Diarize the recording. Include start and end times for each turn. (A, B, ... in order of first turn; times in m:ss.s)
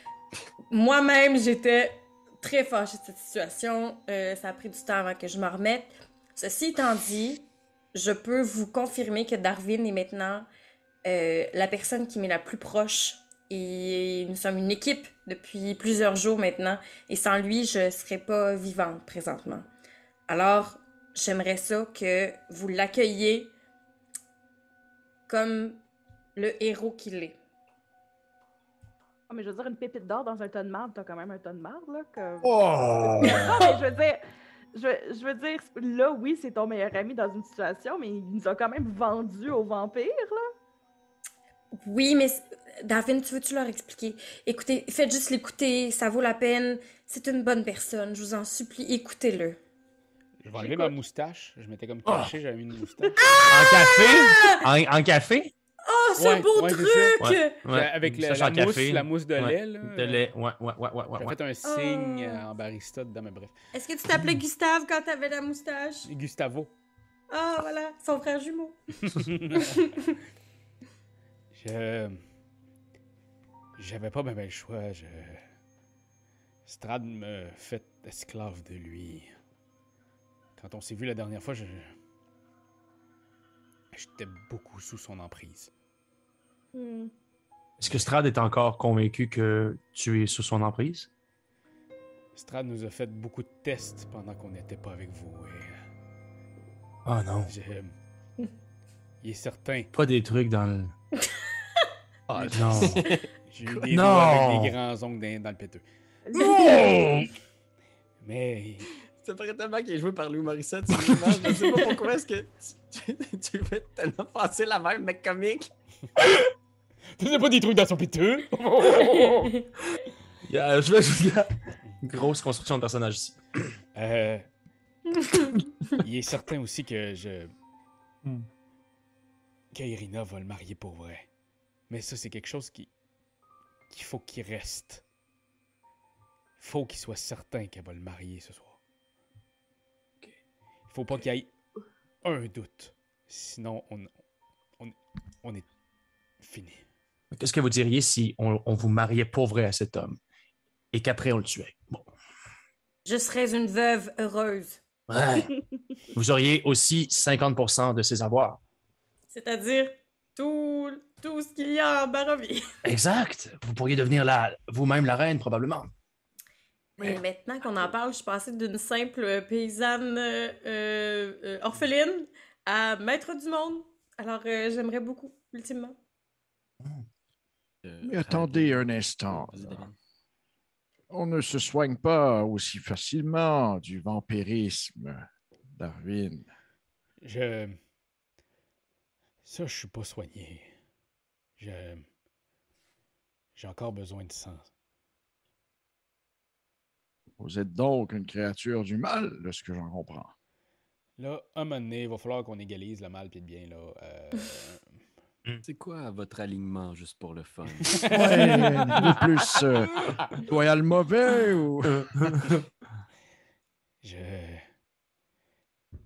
0:00.7-0:10.5 A
0:11.0-0:19.7 A
0:20.3-0:23.5 A
0:25.3-0:25.8 A
0:26.4-0:27.4 A
0:29.3-0:34.2 B
0:32.4-0:33.5 C
0:33.2-0:33.7 A
0:34.7-0:40.4 B
0:41.8-0:49.6 A
0:50.4-0:53.4 D
0:50.6-0:50.9 A
0:52.0-0:52.3 C
0:53.2-0:54.6 A
0:53.5-0:55.5 C
0:55.8-0:57.6 A
0:56.2-1:00.2 D
0:57.2-1:01.3 C
1:01.1-1:03.5 D
1:01.6-1:02.4 A
1:03.7-1:06.1 A
1:06.1-1:06.7 D
1:07.3-1:08.8 A
1:09.1-1:09.6 D
1:09.6-1:10.1 A
1:11.5-1:12.2 D
1:13.8-1:15.5 D
1:16.6-1:19.4 D
1:20.6-1:21.9 D
1:23.9-1:25.7 D
1:26.7-1:27.1 B
1:27.8-1:31.1 C
1:32.3-1:35.8 D
1:37.0-1:37.5 C
1:37.4-1:37.9 D
1:39.2-1:39.9 D
1:39.9-1:40.9 C
1:42.3-1:45.8 D
1:42.4-1:43.0 C
1:42.7-1:43.8 E
1:43.9-1:44.7 C
1:46.2-1:47.1 B
1:46.3-1:47.3 C
1:48.2-1:48.9 D
1:49.2-1:55.7 E
1:57.1-1:59.3 D
1:58.9-1:59.6 A
2:00.5-2:03.7 C
2:03.9-2:04.5 D
2:06.0-2:07.5 D
2:09.7-2:11.3 D
2:11.9-2:12.9 D
2:13.9-2:15.0 D
2:16.6-2:18.8 D
2:20.9-2:21.5 D
2:22.2-2:24.1 D
2:24.8-2:25.7 D
2:26.4-2:26.9 D
2:27.3-2:30.2 C
2:30.9-2:32.1 C
2:33.0-2:34.8 A
2:35.1-2:35.5 C
2:36.1-2:38.6 C
2:39.3-2:42.6 A
2:42.8-2:45.9 C
2:47.0-2:56.0 A
2:57.8-2:59.9 E
2:58.0-2:59.8 F
3:01.1-3:05.2 F
3:05.8-3:06.4 F
3:07.2-3:07.8 D
3:09.4-3:10.8 D
3:11.6-3:12.1 D
3:13.5-3:14.7 D
3:17.4-3:20.3 F
3:21.2-3:25.0 D
3:25.6-3:28.0 E
3:28.0-3:29.1 D
3:28.1-3:32.0 F
3:31.9-3:32.6 C
3:34.0-3:34.7 D